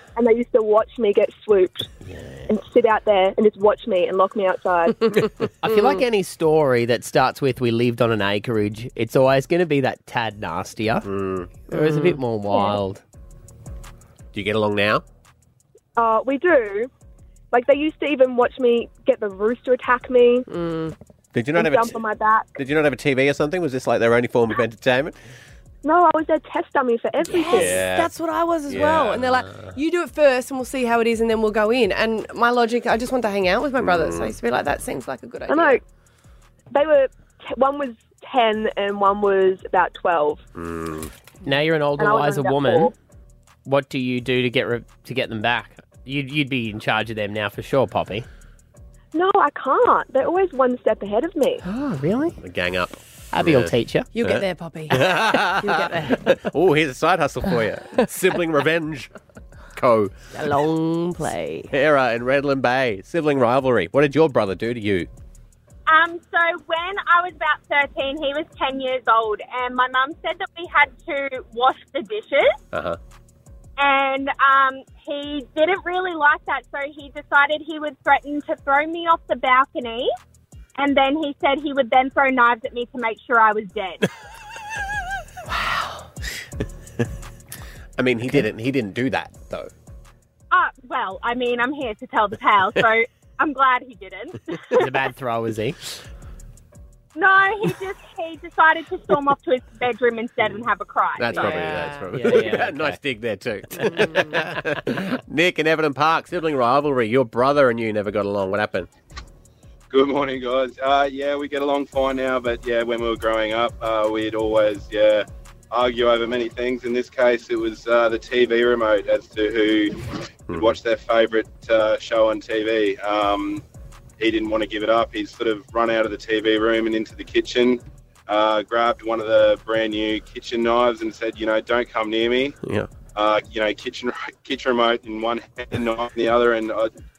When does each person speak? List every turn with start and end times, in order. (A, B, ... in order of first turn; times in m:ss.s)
0:00.2-0:01.9 A
0:02.0-0:02.5 B
0:02.5-0:05.0 A
0:05.6-0:11.1 B
0:11.0-0:11.5 C
0:11.7-0:13.0 B
0:11.8-0:12.2 D
0:14.3-0:15.0 C
0:16.0-0:16.9 A
0:17.5-0:20.5 A
0:20.5-0:20.9 D
0:21.3-0:22.0 C
0:21.5-0:22.6 A
0:22.6-0:25.2 C
0:25.8-0:27.8 A
0:27.3-0:28.1 C
0:27.3-0:35.8 D
0:28.7-0:29.7 C
0:33.8-0:34.4 C
0:35.5-0:35.8 A
0:36.7-0:40.4 A
0:40.6-0:41.1 C
0:41.4-0:42.9 B
0:42.0-0:42.9 A
0:43.6-0:48.3 B
0:49.1-0:51.6 A
0:51.6-0:52.4 B
0:52.4-0:53.7 C
0:53.3-0:54.1 B
0:54.1-0:56.4 D
0:54.2-0:59.1 C
0:59.8-1:00.1 C
1:00.3-1:01.7 D
1:01.7-1:05.1 C
1:05.9-1:12.6 E
1:12.7-1:13.0 C
1:13.8-1:20.1 E
1:20.8-1:24.1 E
1:25.5-1:26.0 D
1:28.0-1:29.7 C
1:30.5-1:34.9 E
1:34.8-1:35.8 B
1:37.2-1:41.4 E
1:41.2-1:48.9 C
1:41.3-1:42.1 D
1:42.1-1:43.0 B
1:43.8-1:44.4 D
1:49.9-2:03.6 F
2:00.5-2:00.8 C
2:04.2-2:12.6 F
2:12.6-2:12.9 C
2:13.2-2:16.9 F